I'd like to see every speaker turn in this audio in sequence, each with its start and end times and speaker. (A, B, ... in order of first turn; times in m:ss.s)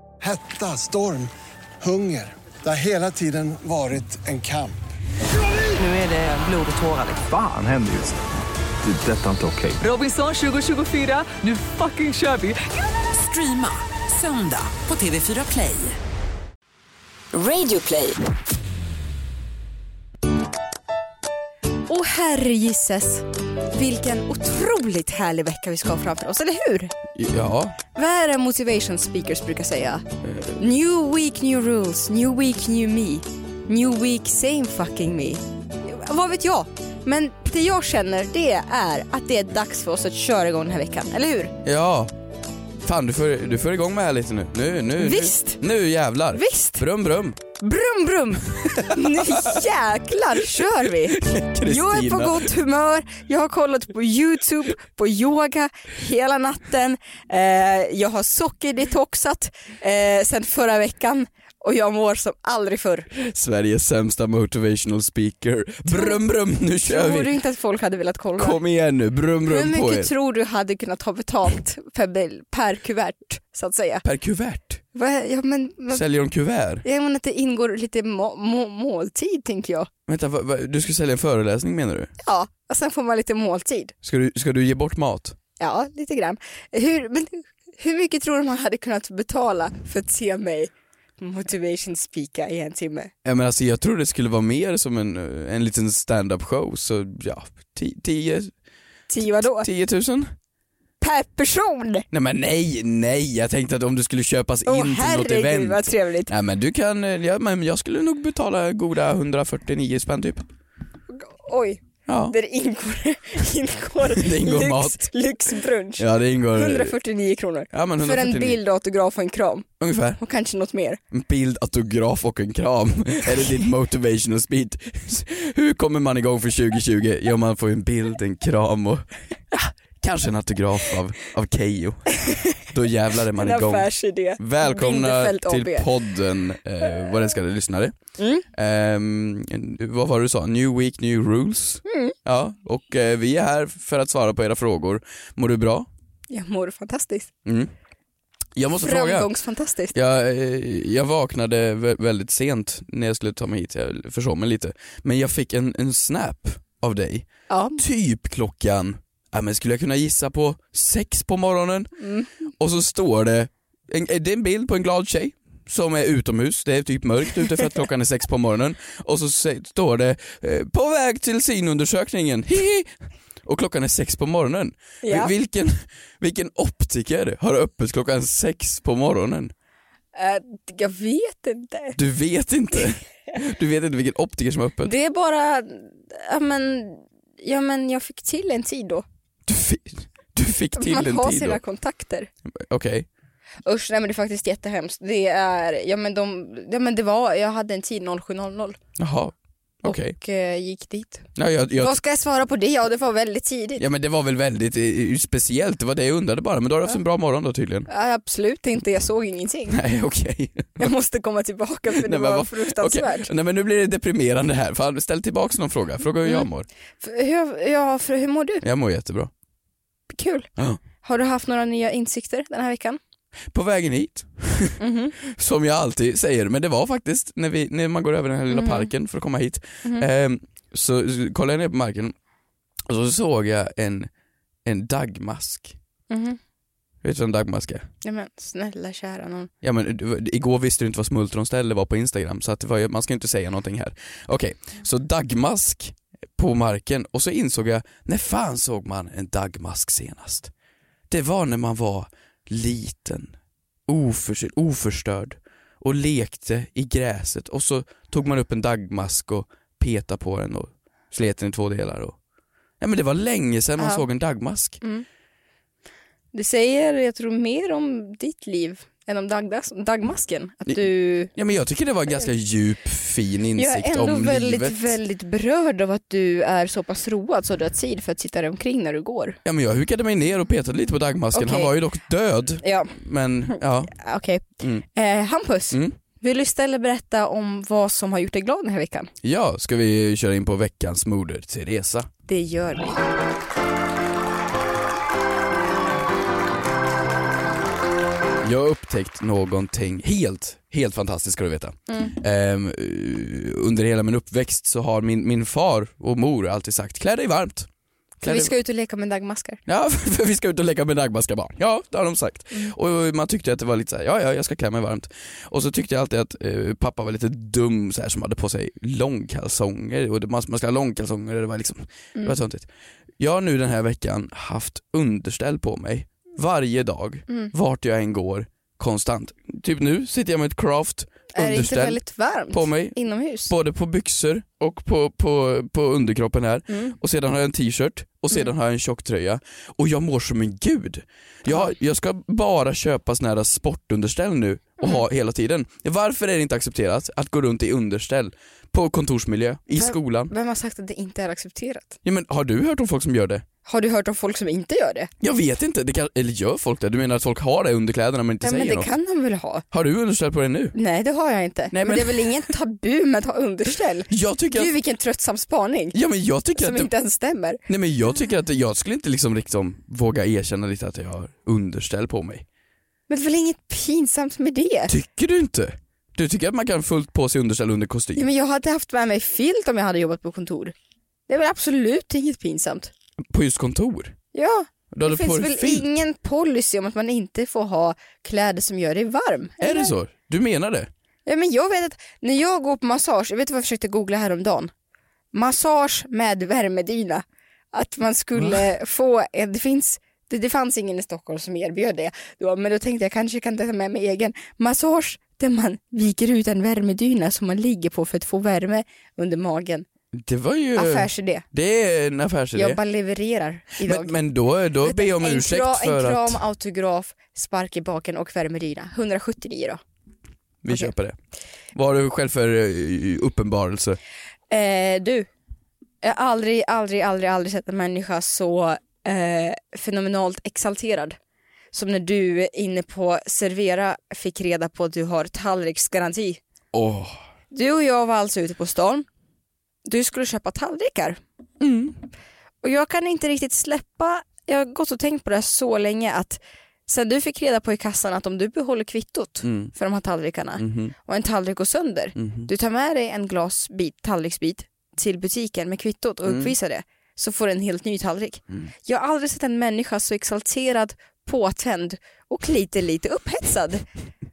0:00.2-0:01.3 A
0:01.8-0:04.8 A
0:05.8-0:07.2 B
0:07.3-0:08.2 C
0:08.8-0:09.8 C
0:09.8-0:16.0 B
0:17.6-0:18.1 B
0:21.9-0:26.9 D
0:27.2-0:27.8 E
0:28.0-0:30.1 D
0:30.3-0:30.5 E
0:30.6-0:41.5 D
0:41.6-0:42.1 E
0:42.8-0:47.4 E
0:45.0-0:45.6 D
0:46.3-0:46.8 D
0:47.6-1:03.1 D
0:48.8-0:49.4 E
0:51.1-0:52.5 E
1:03.1-1:07.3 E
1:05.9-1:06.2 D
1:06.9-1:08.6 D
1:08.4-1:10.1 E
1:09.5-1:14.0 D
1:14.0-1:14.8 E
1:14.9-1:16.0 D
1:15.9-1:16.8 E
1:16.8-1:19.9 D
1:20.1-1:22.1 E
1:22.2-1:23.9 D
1:24.0-1:25.4 E
1:25.6-1:33.1 D
1:33.2-1:38.5 E
1:39.1-1:39.7 D
1:39.4-1:40.3 E
1:41.0-1:42.0 D
1:42.1-1:50.4 E
1:44.7-1:46.3 D
1:51.1-1:59.7 D
1:52.1-1:52.4 E
1:54.1-1:55.1 E
1:56.0-1:57.0 E
1:57.7-1:58.6 E
1:59.8-2:00.2 E
2:00.2-2:01.0 D
2:01.1-2:18.0 E
2:12.2-2:12.6 D
2:13.4-2:15.9 D
2:18.2-2:18.4 D
2:18.5-2:25.9 E
2:21.9-2:22.2 D
2:26.3-2:27.3 D
2:27.5-2:27.7 E
2:28.6-2:29.3 E
2:28.8-2:30.0 D
2:29.9-2:42.0 E
2:37.5-2:37.8 D
2:42.0-2:42.3 D
2:42.6-2:52.9 E
2:53.4-2:59.5 E
2:55.0-2:55.3 D
3:00.2-3:02.0 D
3:02.0-3:04.9 E
3:04.8-3:09.0 D
3:09.5-3:11.6 E
3:10.8-3:12.3 D
3:12.6-3:13.1 E
3:13.6-3:18.8 D
3:19.0-3:20.2 E
3:19.8-3:23.8 D
3:21.4-3:22.0 E
3:23.8-3:27.9 E
3:27.9-3:29.8 D
3:29.7-3:30.9 E
3:30.8-3:33.3 D
3:31.9-3:36.7 E
3:37.0-3:38.6 D
3:38.6-3:39.3 E
3:40.1-3:40.5 D
3:41.0-3:43.0 D
3:43.5-3:52.2 E
3:44.8-3:45.2 D
3:48.5-3:48.9 D
3:52.9-3:54.1 E
3:54.6-3:55.8 E
3:56.1-3:56.4 D
3:57.0-3:57.9 E
3:58.0-3:59.5 D
3:59.6-4:10.5 E
4:11.1-4:13.3 E
4:13.9-4:22.2 E
4:22.8-4:24.8 E
4:23.8-4:24.0 D
4:26.3-4:31.3 D
4:30.7-4:35.0 E
4:33.6-4:39.4 D
4:39.4-4:43.9 E
4:41.3-4:41.7 D
4:42.6-4:42.9 D
4:43.5-4:49.1 D
4:45.7-4:46.0 E
4:49.2-4:52.1 E
4:52.3-4:53.0 D
4:58.4-5:07.7 E
5:01.9-5:02.2 D
5:08.2-5:09.6 D
5:08.2-5:08.5 E
5:09.7-5:22.7 E
5:23.2-5:32.0 E
5:31.3-5:33.5 D
5:32.5-5:50.3 E
5:41.5-5:41.7 D
5:49.8-5:52.0 D
5:52.0-5:53.4 E
5:53.6-5:55.1 D
5:55.2-5:58.9 E
5:58.4-5:59.6 D
5:59.7-6:00.8 E
6:00.8-6:06.0 D
6:01.7-6:02.5 E
6:04.1-6:04.7 E
6:05.9-6:06.9 E
6:06.6-6:07.6 D
6:07.7-6:12.4 E
6:13.1-6:14.9 D
6:14.9-6:18.3 E
6:18.2-6:20.7 D
6:21.3-6:22.9 D
6:23.3-6:24.2 E
6:24.3-6:29.9 D
6:24.9-6:25.9 E
6:29.6-6:30.9 E
6:31.3-6:34.7 D
6:35.3-6:49.9 D
6:50.1-6:52.8 E
6:50.8-6:51.4 D
6:52.6-6:54.2 D
6:53.8-6:56.4 E
6:54.8-6:59.8 D
7:00.6-7:01.2 E
7:01.7-7:04.0 E
7:04.5-7:05.3 D
7:06.0-7:11.2 D
7:11.7-7:16.4 D
7:16.7-7:17.2 E
7:17.5-7:19.1 D
7:19.8-7:21.2 D
7:21.6-7:22.0 E
7:22.6-7:43.8 D
7:29.4-7:29.7 E
7:30.6-7:30.9 E
7:32.2-7:32.5 E
7:36.2-7:36.5 E